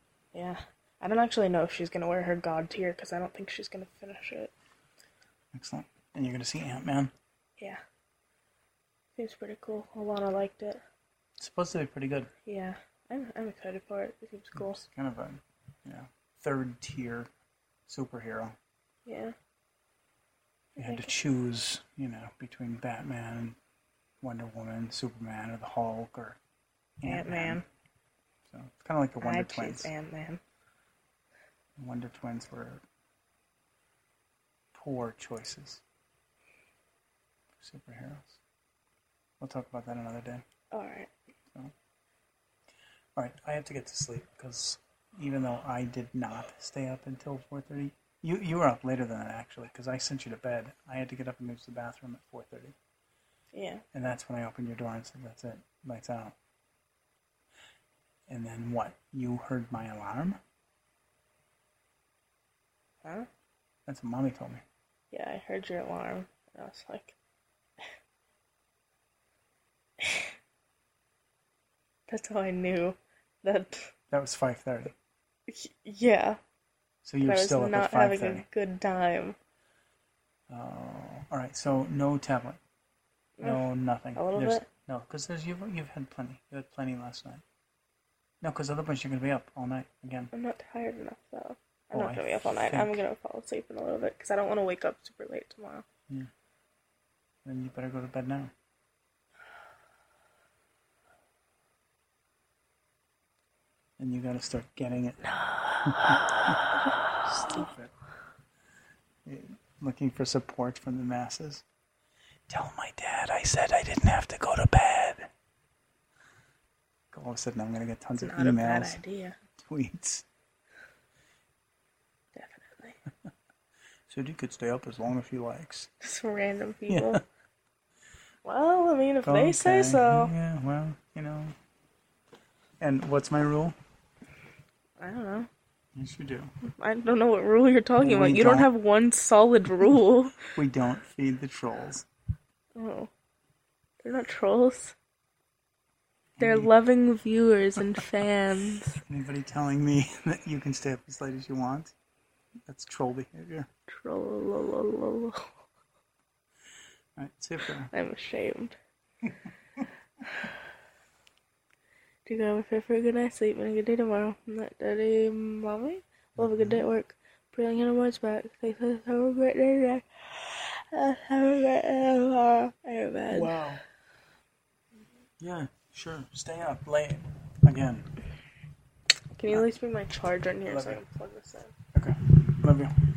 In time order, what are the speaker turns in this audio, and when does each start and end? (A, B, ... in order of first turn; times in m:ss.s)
0:00.3-0:04.5 A
0:05.5-0:07.1 B
0:09.2-0:10.8 A
0:11.4-0:12.3 B
0:12.4-0:14.8 A
0:14.6-0:17.3 B
0:17.9-0:18.6 B
0:19.1-0:19.3 A
0:20.8-0:21.1 A
0:20.8-0:23.6 B
0:24.2-0:26.4 B
0:27.0-0:27.6 B
0:27.0-0:27.6 A
0:28.5-0:29.9 B
0:29.2-0:30.4 A
0:31.8-0:32.8 B
0:34.7-0:35.8 B
0:37.6-0:38.4 B
0:39.4-0:40.4 B
0:40.7-0:41.1 A
0:43.2-0:52.8 B
0:53.5-0:53.8 A
0:53.9-0:56.4 B
0:58.3-1:00.4 B
1:03.0-1:03.3 A
1:03.9-1:04.6 B
1:05.1-1:07.2 A
1:10.0-1:10.3 A
1:12.1-1:13.9 A
1:14.1-1:14.9 B
1:15.5-1:16.4 A
1:17.0-1:18.4 B
1:17.2-1:19.4 A
1:20.5-1:22.6 B
1:23.4-1:23.6 A
1:23.4-1:27.4 B
1:24.2-1:24.6 A
1:28.4-1:30.3 B
1:30.3-1:35.8 A
1:31.9-1:33.0 B
1:37.4-1:38.5 B
1:44.0-1:46.6 B
1:47.2-1:47.9 B
1:49.2-1:51.6 B
1:52.5-1:55.3 B
1:57.1-1:59.0 B
1:58.2-1:59.4 A
1:59.6-2:00.2 B
2:02.3-2:03.0 A
2:04.1-2:05.9 B
2:06.0-2:07.2 A
2:06.9-2:07.2 B
2:08.4-2:10.3 A
2:09.2-2:11.6 B
2:12.8-2:13.8 B
2:15.0-2:15.5 A
2:15.9-2:16.5 B
2:16.7-2:20.5 A
2:18.0-2:18.7 B
2:20.4-2:22.1 B
2:22.7-2:23.1 A
2:24.0-2:25.0 A
2:26.4-2:26.7 B
2:26.4-2:29.0 A
2:29.0-2:31.9 B
2:32.7-2:33.7 B
2:33.9-2:35.6 A
2:37.2-2:37.9 B
2:37.9-2:38.8 A
2:42.2-2:53.6 A
2:46.4-2:46.8 B
2:53.3-2:53.8 B
2:55.4-2:58.1 B
2:59.3-3:01.7 A
3:00.7-3:01.0 B
3:01.9-3:02.9 B